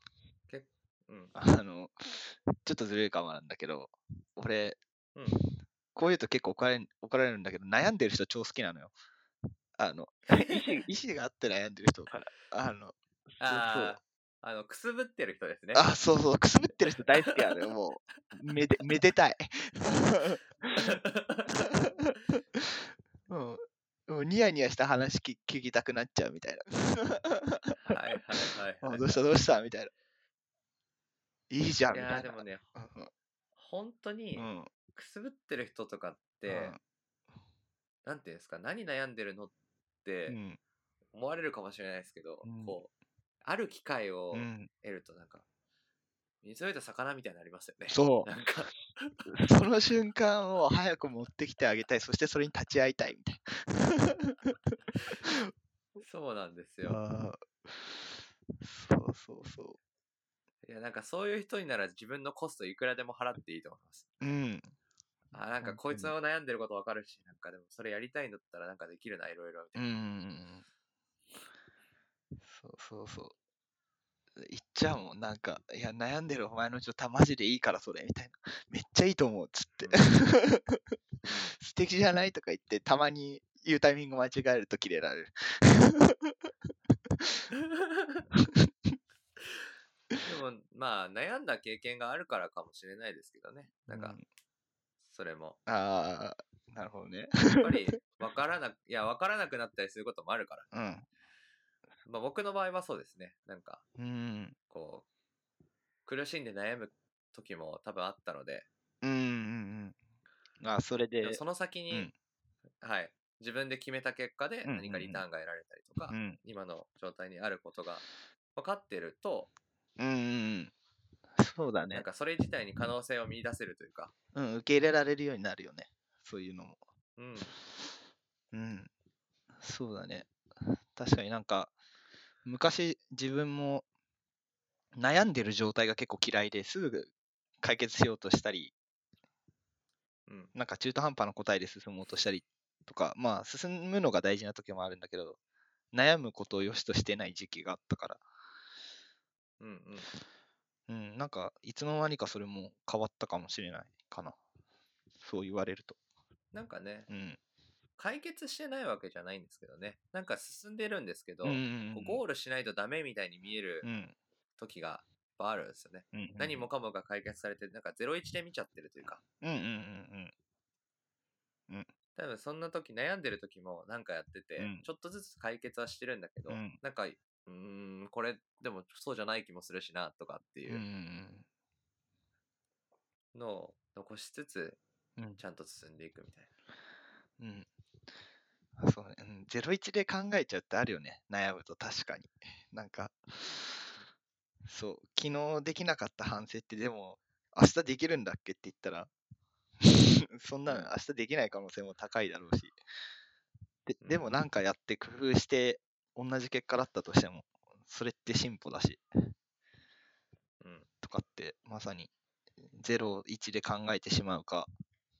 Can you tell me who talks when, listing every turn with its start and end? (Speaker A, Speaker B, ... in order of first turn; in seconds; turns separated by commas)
Speaker A: 0.5-1.3, Speaker B: 1.3-4.8, Speaker B: 5.9-8.9, Speaker B: 9.8-14.0, Speaker A: 10.3-10.8, Speaker A: 13.4-15.9, Speaker B: 15.7-20.9, Speaker A: 20.7-21.9, Speaker B: 21.7-21.9, Speaker B: 23.3-27.8, Speaker A: 27.8-29.2, Speaker B: 28.8-29.9, Speaker B: 31.5-33.1, Speaker A: 31.9-32.6, Speaker A: 33.6-36.8, Speaker B: 34.4-34.7, Speaker B: 36.5-36.8, Speaker A: 38.0-39.5, Speaker A: 40.0-40.4, Speaker B: 40.3-40.6, Speaker A: 41.1-42.9, Speaker B: 42.4-42.8, Speaker A: 43.4-45.4, Speaker B: 44.3-44.7, Speaker A: 46.4-49.3, Speaker B: 47.9-48.3, Speaker B: 49.3-55.5, Speaker A: 56.0-57.0, Speaker B: 56.9-59.8, Speaker A: 60.6-64.1, Speaker B: 64.2-64.7, Speaker A: 65.3-69.9, Speaker B: 65.6-66.1, Speaker B: 69.8-70.6, Speaker B: 72.4-73.3, Speaker B: 74.4-86.4, Speaker A: 79.8-80.1, Speaker A: 81.2-81.5, Speaker A: 87.7-88.2, Speaker B: 88.3-89.0, Speaker A: 90.2-94.2, Speaker B: 93.9-94.2, Speaker A: 95.1-95.6, Speaker B: 95.7-97.8, Speaker A: 97.6-100.7, Speaker B: 100.7-101.0, Speaker A: 102.0-103.8, Speaker B: 104.0-104.5, Speaker A: 104.7-105.0, Speaker A: 106.0-108.7, Speaker B: 109.0-110.0, Speaker B: 110.6-112.1, Speaker A: 111.2-112.1, Speaker A: 112.8-118.0, Speaker B: 114.6-115.2, Speaker B: 116.1-116.4, Speaker A: 118.5-119.5, Speaker B: 120.0-120.7, Speaker B: 121.4-122.0, Speaker A: 121.9-124.1, Speaker B: 124.3-126.8, Speaker A: 127.2-127.5, Speaker B: 128.5-128.9, Speaker B: 129.6-131.7, Speaker B: 132.4-133.8, Speaker B: 135.0-138.7, Speaker A: 140.3-140.5, Speaker B: 140.5-145.4, Speaker B: 145.9-148.2, Speaker A: 149.6-150.1, Speaker B: 150.9-154.4, Speaker B: 155.2-156.0, Speaker A: 156.5-157.1, Speaker B: 157.1-157.4, Speaker A: 158.0-163.8, Speaker B: 161.4-162.2, Speaker B: 163.8-164.1, Speaker A: 164.6-169.2, Speaker B: 166.1-166.7, Speaker B: 169.4-170.3, Speaker A: 172.1-180.8, Speaker B: 174.6-174.8, Speaker B: 176.5-176.8, Speaker B: 180.7-181.4, Speaker A: 183.3-184.8, Speaker A: 185.4-186.5, Speaker B: 187.4-187.7, Speaker B: 188.8-193.8, Speaker B: 194.7-199.1, Speaker B: 199.8-202.8, Speaker A: 200.7-200.9, Speaker B: 203.9-209.3, Speaker A: 204.0-204.3, Speaker A: 210.6-210.9, Speaker B: 211.0-212.1, Speaker B: 212.6-214.7